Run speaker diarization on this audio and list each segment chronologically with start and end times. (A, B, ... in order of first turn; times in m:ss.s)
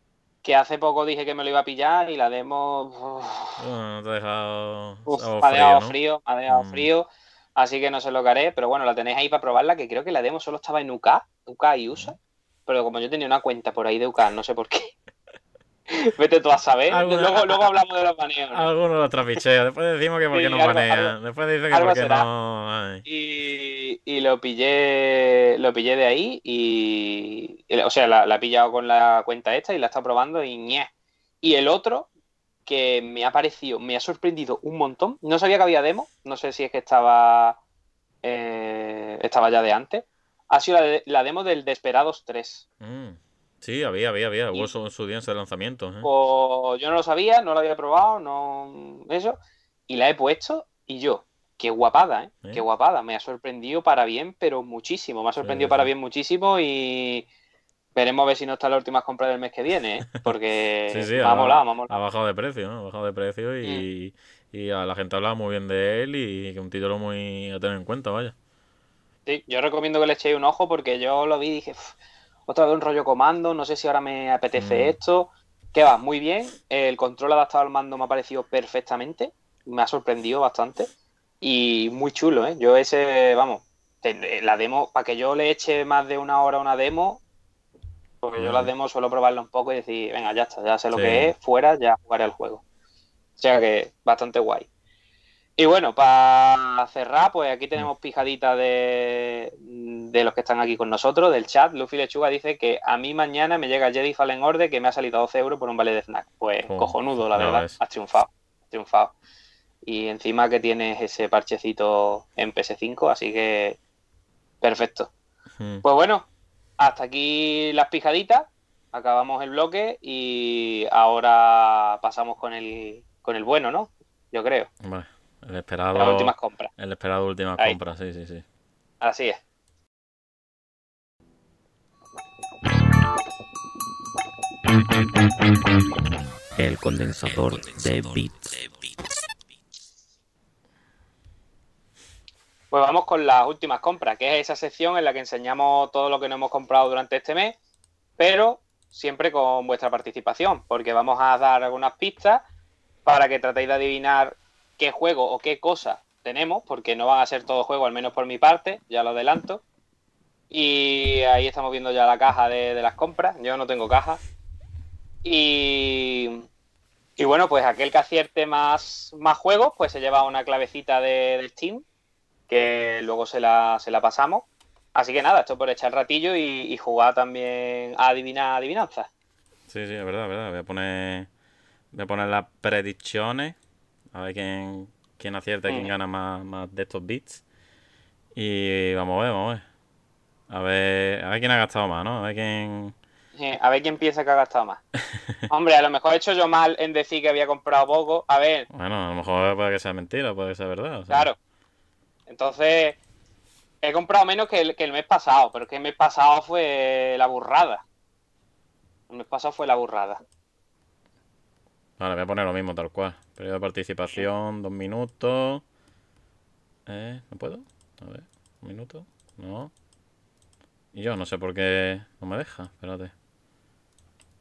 0:00.4-0:03.6 A
0:03.6-0:06.0 B
0:05.1-0:14.9 A
0:06.5-0:06.9 B
0:15.9-0:18.6 A
0:16.9-0:17.6 B
0:18.5-0:23.0 B
0:20.3-0:21.1 A
0:21.7-0:22.3 A
0:23.0-0:30.9 A
0:31.4-0:32.1 A
0:32.6-0:37.6 A
0:38.2-0:42.6 A
0:42.8-0:46.1 B
0:46.0-0:49.4 A
0:49.9-0:57.3 A
0:55.4-0:55.9 B
0:57.9-1:02.0 A
1:00.9-1:08.3 B
1:09.2-1:11.9 A
1:12.5-1:27.2 A
1:14.6-1:15.0 B
1:28.2-1:32.6 A
1:28.4-1:28.7 B
1:30.9-1:31.3 B
1:33.4-1:34.7 A
1:35.6-1:49.1 A
1:46.7-1:47.8 B
1:49.8-1:53.8 A
1:54.6-1:55.1 A
1:55.6-1:55.8 B
1:55.8-1:56.3 A
1:56.8-2:04.7 A
2:04.8-2:08.4 B
2:05.9-2:06.7 A
2:09.0-2:09.4 A
2:16.6-2:18.8 C
2:22.7-2:27.6 A
2:28.2-2:32.4 A
2:33.0-2:39.6 A
2:40.5-2:44.2 A
2:45.2-2:46.4 A
2:47.2-2:51.8 A
2:52.5-2:59.1 A
2:59.7-3:01.3 B
3:01.9-3:03.6 B
3:04.1-3:07.4 B
3:08.3-3:09.6 B
3:10.5-3:12.9 B
3:13.3-3:14.8 A
3:15.5-3:18.7 A
3:18.7-3:21.3 B
3:21.1-3:21.4 A
3:22.3-3:23.0 A
3:23.8-3:27.8 A
3:29.1-3:30.2 A
3:32.0-3:35.6 B
3:36.8-3:39.7 B
3:40.9-3:43.1 B